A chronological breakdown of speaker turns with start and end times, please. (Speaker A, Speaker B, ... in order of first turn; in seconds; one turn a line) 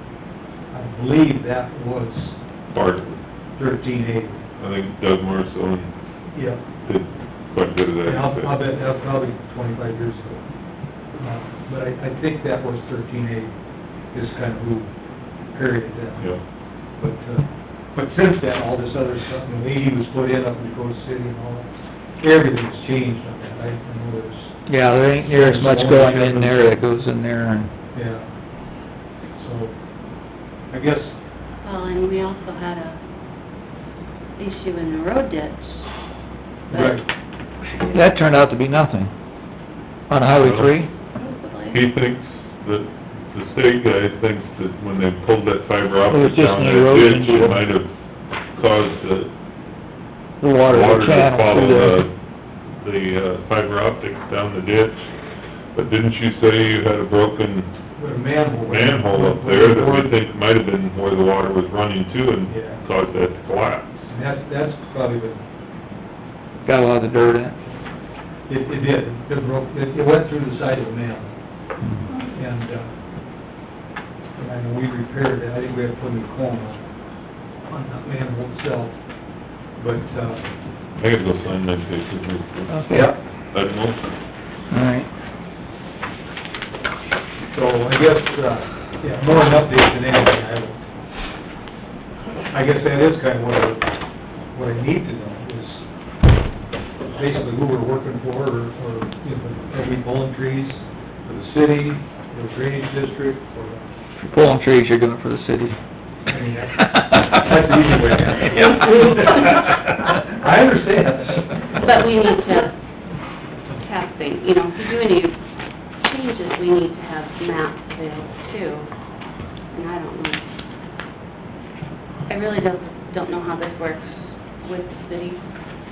Speaker A: 0.7-2.4
Speaker B: 2.7-3.2
Speaker A: 3.5-4.4
Speaker B: 4.6-8.6
Speaker A: 6.3-6.6
Speaker A: 8.0-26.8
Speaker C: 24.7-27.7
Speaker A: 27.9-28.3
Speaker A: 29.4-29.8
Speaker A: 30.7-31.2
Speaker D: 31.6-33.0
Speaker D: 34.4-35.9
Speaker D: 36.7-37.1
Speaker A: 36.7-37.0
Speaker C: 37.8-39.1
Speaker C: 40.1-40.9
Speaker B: 40.3-40.7
Speaker D: 41.1-41.8
Speaker B: 41.7-47.9
Speaker C: 46.1-47.6
Speaker B: 48.5-49.3
Speaker C: 50.4-52.1
Speaker B: 50.6-52.1
Speaker B: 52.7-55.0
Speaker B: 55.7-57.7
Speaker A: 58.0-60.1
Speaker B: 58.6-64.1
Speaker A: 62.5-62.8
Speaker A: 64.1-65.4
Speaker C: 66.6-67.6
Speaker A: 68.5-71.4
Speaker A: 72.3-72.9
Speaker A: 74.4-76.9
Speaker A: 77.6-79.0
Speaker A: 79.7-80.5
Speaker B: 81.0-84.0
Speaker C: 82.7-83.2
Speaker A: 82.9-83.2
Speaker C: 84.7-85.1
Speaker A: 87.5-90.8
Speaker A: 92.5-93.9
Speaker A: 94.5-95.9
Speaker A: 97.1-103.9
Speaker C: 104.2-105.8
Speaker A: 106.3-111.9
Speaker D: 111.8-112.7
Speaker D: 113.8-115.4
Speaker D: 116.0-118.9
Speaker D: 119.7-120.4
Speaker D: 122.3-125.4